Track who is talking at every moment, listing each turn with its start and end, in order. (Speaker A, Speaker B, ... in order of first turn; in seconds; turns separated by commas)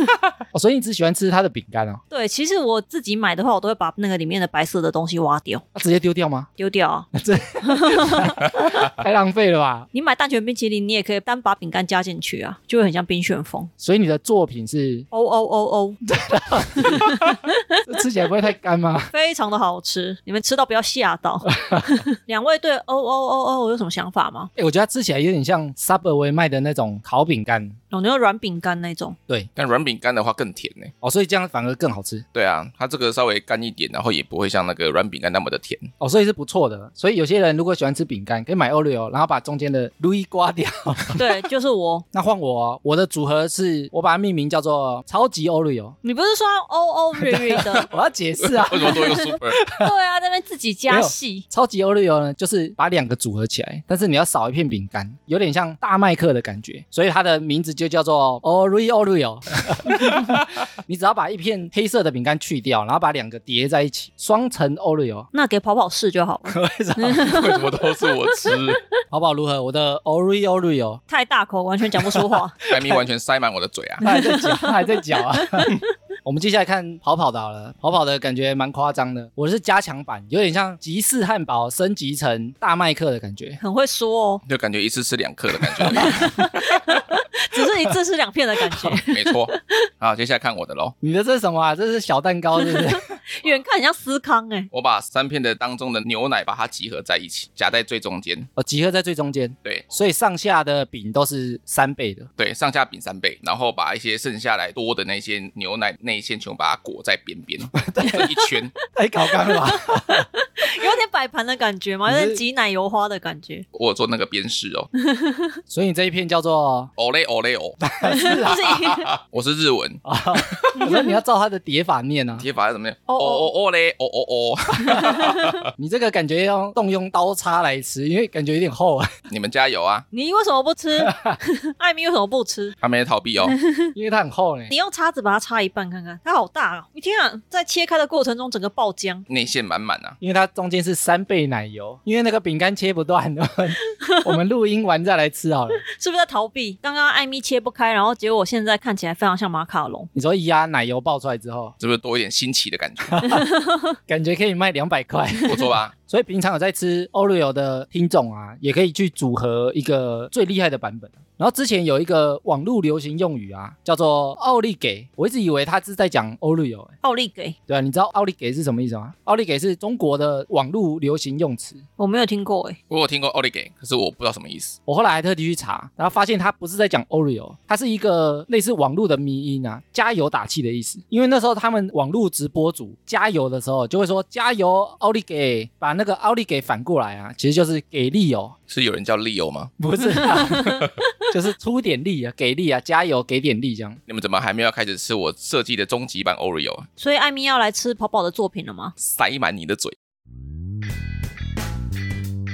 Speaker A: 0.5-2.0, Speaker B: 2.1-5.6, Speaker A: 5.7-6.5, Speaker B: 6.6-7.1, Speaker A: 7.1-9.9, Speaker B: 7.7-8.3, Speaker B: 9.9-13.7, Speaker A: 13.8-15.1, Speaker B: 15.1-16.0, Speaker A: 16.1-17.3, Speaker B: 16.8-17.8, Speaker A: 17.9-19.1, Speaker B: 19.1-24.5, Speaker A: 21.5-22.1, Speaker A: 24.5-27.8, Speaker B: 27.9-29.2, Speaker C: 29.6-30.9, Speaker A: 31.0-32.2, Speaker C: 32.3-35.9, Speaker A: 36.0-41.2, Speaker B: 41.2-42.0, Speaker A: 42.1-46.0, Speaker B: 46.0-47.9, Speaker A: 47.2-49.9, Speaker C: 48.4-49.6, Speaker B: 48.9-51.4, Speaker A: 50.9-65.3, Speaker C: 60.0-60.4, Speaker B: 65.3-67.6, Speaker A: 66.5-67.4, Speaker C: 67.1-68.8, Speaker B: 68.5-68.8, Speaker A: 69.1-71.0, Speaker B: 71.1-72.6, Speaker C: 72.7-74.0, Speaker A: 74.0-83.6, Speaker B: 74.0-75.8, Speaker B: 83.6-84.4, Speaker C: 84.4-87.0, Speaker B: 85.8-89.9, Speaker A: 85.9-86.3, Speaker A: 87.5-87.9, Speaker C: 88.9-90.9, Speaker A: 91.0-93.1, Speaker B: 92.6-94.7, Speaker C: 94.7-98.5, Speaker A: 98.5-102.3, Speaker C: 102.4-108.7, Speaker A: 107.7-108.3, Speaker A: 108.9-110.3, Speaker B: 109.3-113.7, Speaker A: 112.1-112.4, Speaker C: 113.7-114.9, Speaker B: 115.0-115.6, Speaker A: 115.7-116.9, Speaker C: 117.0-117.8, Speaker A: 117.8-118.7, Speaker B: 118.0-119.0, Speaker C: 118.4-120.6, Speaker A: 120.0-122.5, Speaker B: 120.7-121.2, Speaker C: 122.4-125.6, Speaker B: 123.1-123.5, Speaker B: 124.9-125.5, Speaker A: 125.7-129.1, Speaker C: 129.3-130.1, Speaker B: 130.1-132.8, Speaker A: 131.0-131.4, Speaker C: 132.8-133.5, Speaker B: 133.4-133.9, Speaker A: 133.9-134.7, Speaker B: 134.7-139.2, Speaker C: 139.3-140.2, Speaker A: 140.2-145.8, Speaker B: 144.0-144.3, Speaker B: 145.9-150.1, Speaker A: 150.1-151.7, Speaker C: 151.8-153.2, Speaker A: 153.1-153.4, Speaker B: 153.3-153.9, Speaker A: 154.1-166.9, Speaker C: 155.5-155.9, Speaker B: 167.0-167.6, Speaker A: 167.7-171.8, Speaker B: 172.0-172.8, Speaker C: 172.9-174.8, Speaker A: 174.8-188.5, Speaker C: 188.7-189.7, Speaker A: 189.8-194.0, Speaker B: 190.3-190.9, Speaker C: 194.1-196.9, Speaker B: 197.0-198.9, Speaker C: 199.0-199.9